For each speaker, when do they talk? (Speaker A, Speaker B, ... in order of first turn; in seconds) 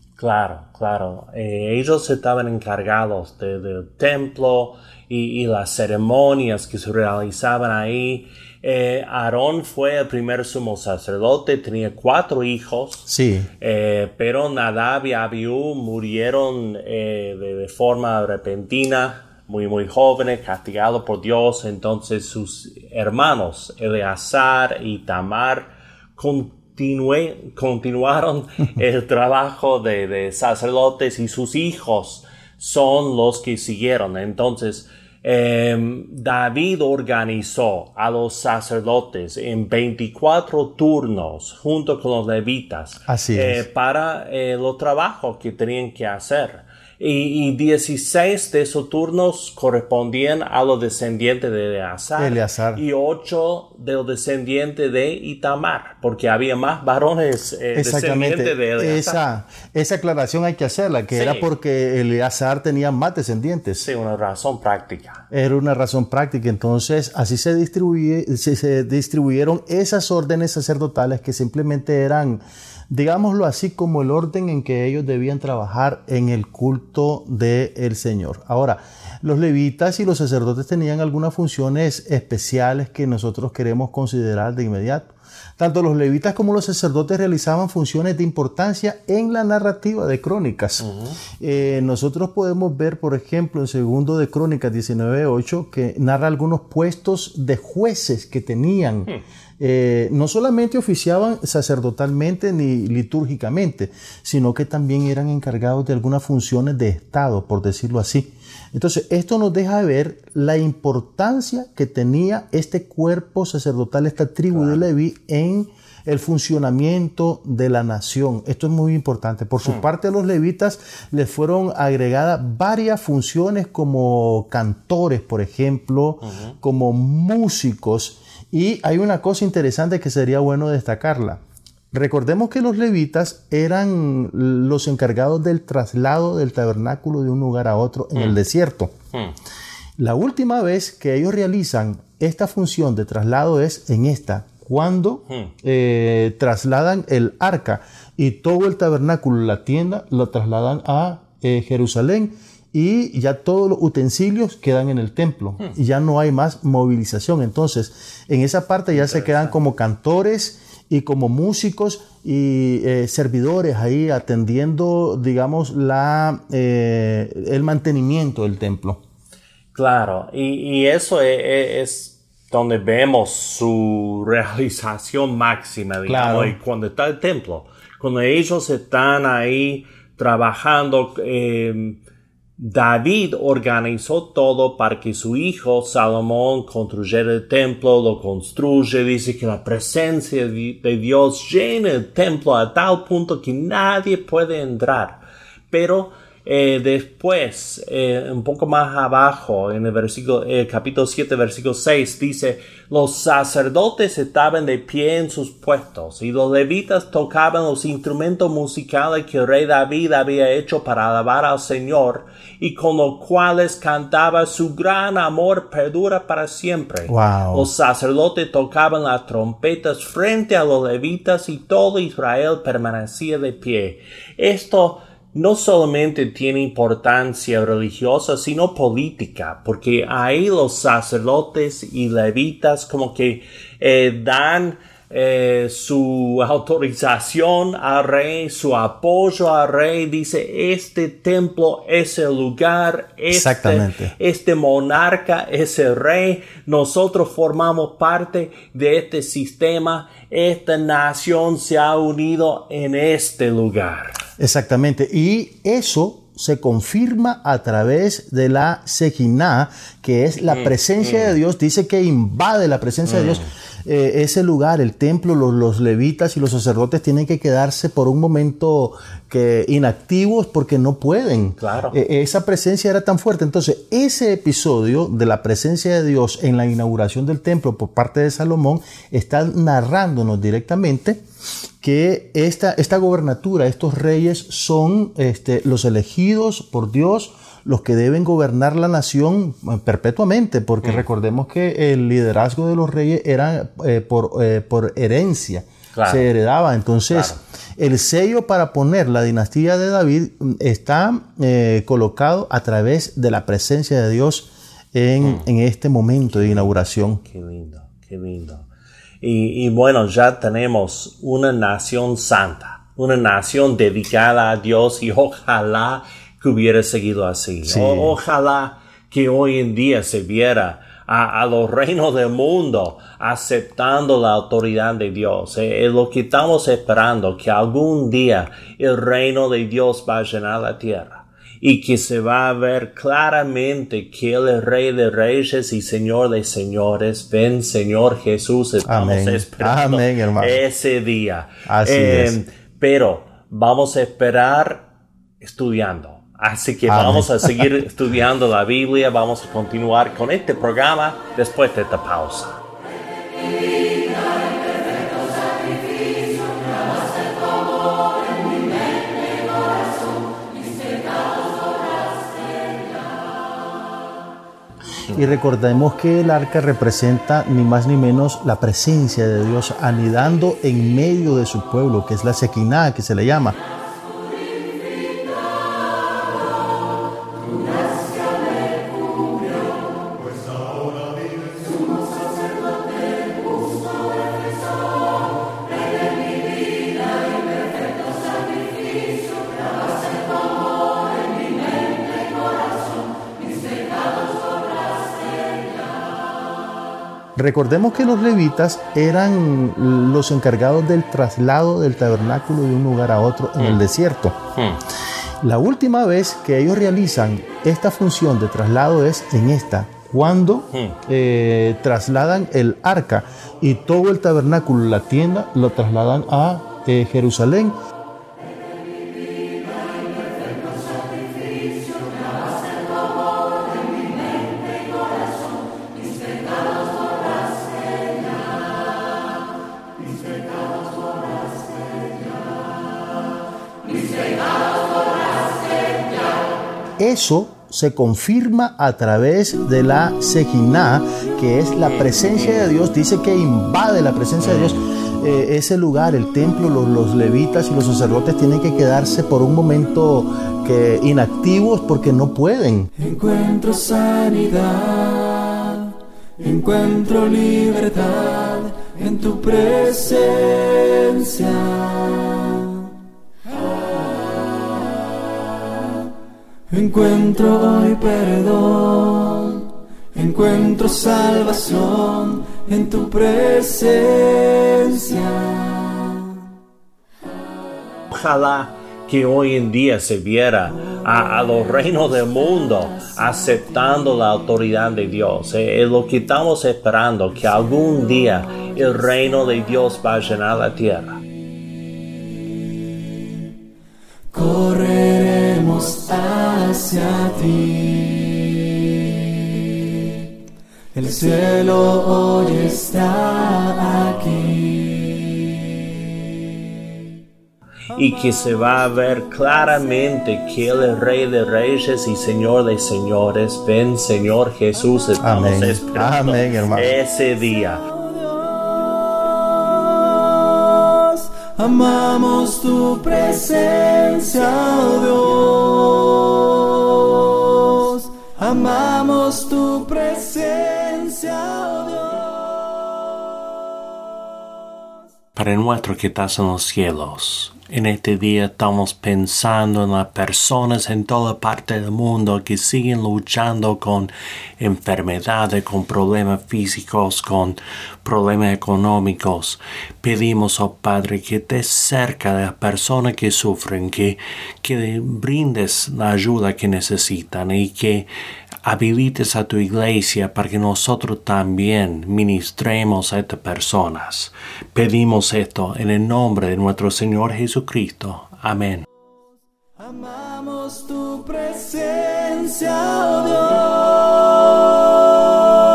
Speaker A: 0.2-13.1, 13.6-59.2, 61.1-61.5, 63.8-65.2, 90.8-91.2, 114.5-114.8, 126.2-126.5, 138.2-138.4, 158.9-159.6, 169.7-182.0, 182.6-254.2, 260.5-261.4, 263.1-263.5, 271.6-272.0, 295.9-296.3, 297.1-297.4, 305.2-305.5, 306.3-308.7, 309.2-344.9, 345.4-352.6, 404.6-404.8, 410.7-411.0, 444.4-444.8, 478.1-491.2, 507.9-517.8, 535.4-558.1, 558.6-568.9
Speaker B: 13.1-13.5, 43.1-43.6, 52.2-52.8, 57.8-63.9, 65.3-90.9, 91.4-131.4, 131.9-138.9, 140.0-169.0, 176.1-176.6, 217.1-217.7, 243.3-244.1, 254.4-281.2, 281.8-307.2, 317.7-318.2, 338.9-340.6, 341.7-342.4, 346.9-347.6, 365.1-373.6, 397.4-404.4, 405.4-417.8, 437.0-452.9, 515.2-517.0
Speaker C: 453.0-462.9, 466.7-476.3, 494.3-499.9, 500.9-505.6, 518.1-532.5, 569.8-575.2